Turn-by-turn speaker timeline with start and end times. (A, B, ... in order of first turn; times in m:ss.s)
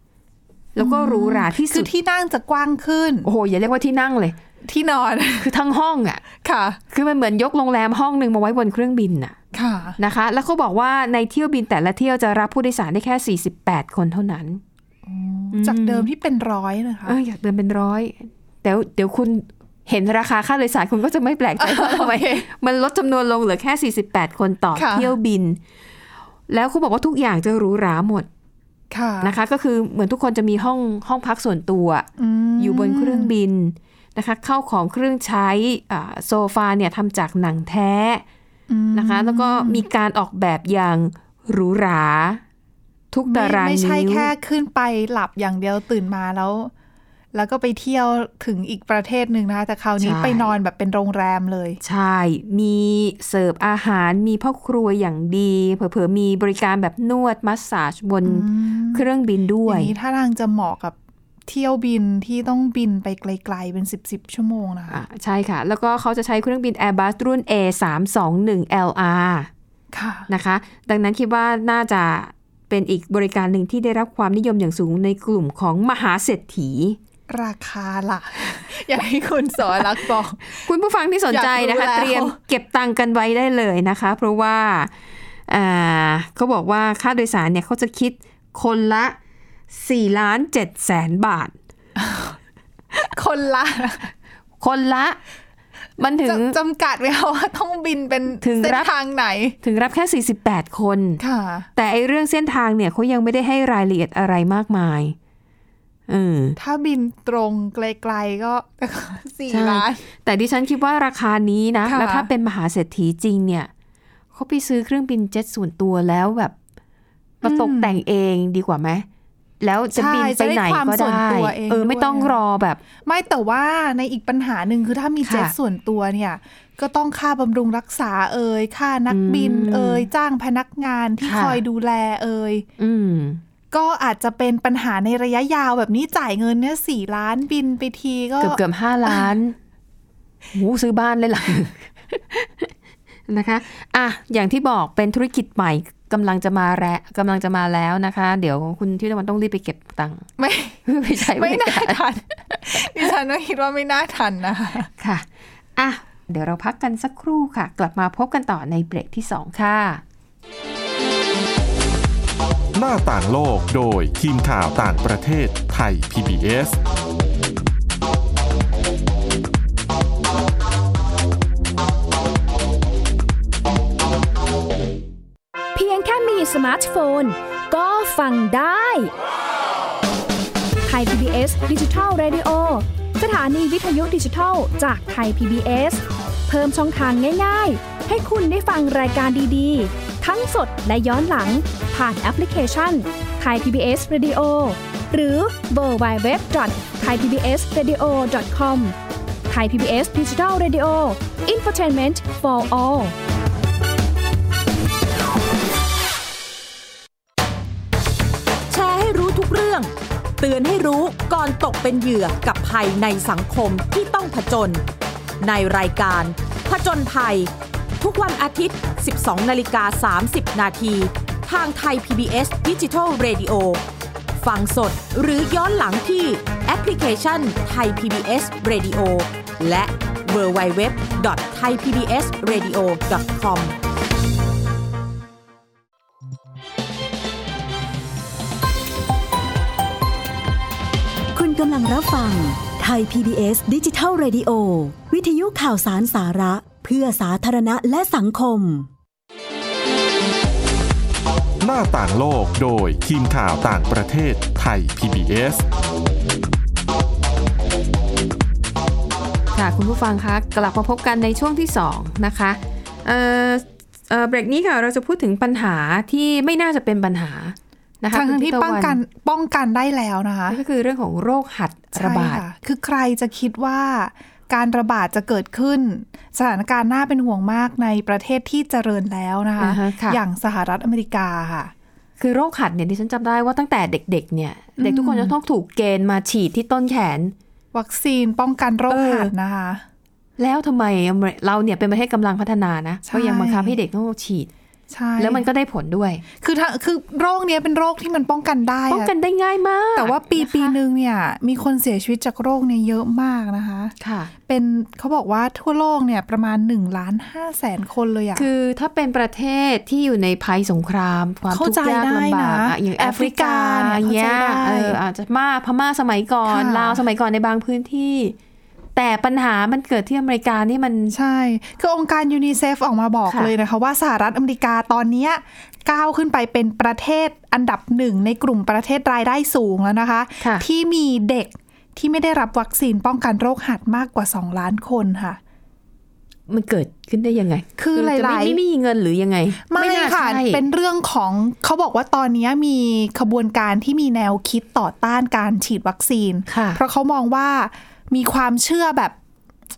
0:00.7-0:01.9 A
0:00.8-0:03.3 B
0:03.2-0:04.4 A
0:04.6-0:05.5 B
0:05.4-0:06.2 A
0:06.4-0:06.8 B
0:06.9-0:09.4 A
0:09.5-0:10.0 B
0:10.0-0:14.6 A
0:15.0-0:17.2 B
0:15.5-0:16.1 A
0:17.0-0:25.6 A
0:21.6-0:22.4 B
0:24.8-0:25.1 B
0:26.5-0:28.3 A
0:28.9-0:29.3 B
0:29.2-0:32.1 A
0:32.2-0:33.3 B
0:32.6-0:38.2 A
0:38.7-0:39.8 B
0:38.9-0:42.4 A
0:43.1-0:44.3 A
0:43.3-0:46.7 B
0:47.3-0:51.8 B
0:50.0-0:50.5 A
0:51.8-0:59.9 A
0:58.2-0:59.0 B
0:59.6-1:01.0 B
1:01.5-1:05.0 B
1:04.9-1:09.5 A
1:09.9-1:10.3 B
1:10.3-1:17.0 A
1:17.3-1:20.6 B
1:20.5-1:24.9 A
1:21.3-1:22.4 B
1:25.5-1:29.2 A
1:29.7-1:31.5 A
1:32.0-1:32.4 B
1:32.9-1:34.0 B
1:34.6-1:35.2 A
1:36.0-1:36.6 A
1:36.2-1:39.6 B
1:38.4-1:38.9 A
1:39.6-1:41.2 A
1:41.2-1:41.7 B
1:41.7-1:45.2 A
1:46.1-1:46.6 A
1:46.6-1:50.0 B
1:49.5-1:53.7 A
1:51.8-1:52.3 B
1:54.3-1:56.5 A
1:57.4-1:59.0 A
1:57.4-1:58.0 B
1:59.6-2:02.8 A
1:59.9-2:02.4 B
2:03.0-2:12.6 B
2:05.2-2:05.5 A
2:09.1-2:10.1 A
2:11.2-2:11.6 A
2:12.8-2:13.4 A
2:13.7-2:19.2 B
2:18.4-2:19.6 A
2:20.5-2:22.7 A
2:23.3-2:30.3 A
2:30.4-2:34.9 B
2:30.8-2:32.0 A
2:35.0-2:40.0 A
2:42.7-2:46.8 C
2:55.7-2:59.1 D
3:00.8-3:18.9 D
3:19.5-3:23.1 D
3:28.7-3:34.8 E
3:35.4-3:43.8 E
3:44.4-3:53.7 E
4:01.3-4:08.9 F
4:11.6-4:15.6 C
4:19.5-4:29.0 A
4:28.1-4:30.6 B
4:30.5-4:32.4 A
4:31.9-4:41.7 B
4:39.6-4:40.2 A
4:42.2-4:47.3 A
4:44.8-4:45.3 B
4:47.7-4:49.8 B
4:48.9-4:49.3 A
4:50.4-4:54.5 A
4:53.1-4:53.8 B
4:54.9-4:55.4 B
4:55.2-4:56.2 A
4:56.4-4:59.1 B
4:58.9-5:00.8 A
5:00.0-5:03.9 B
5:04.0-5:04.3 A
5:04.5-5:08.4 B
5:08.3-5:18.4 A
5:11.5-5:15.0 B
5:16.5-5:17.0 B
5:19.0-5:21.2 A
5:21.1-5:35.4 B
5:30.4-5:30.6 A
5:36.5-5:40.6 A
5:37.8-5:38.6 B
5:39.7-5:49.2 B
5:46.5-5:46.8 A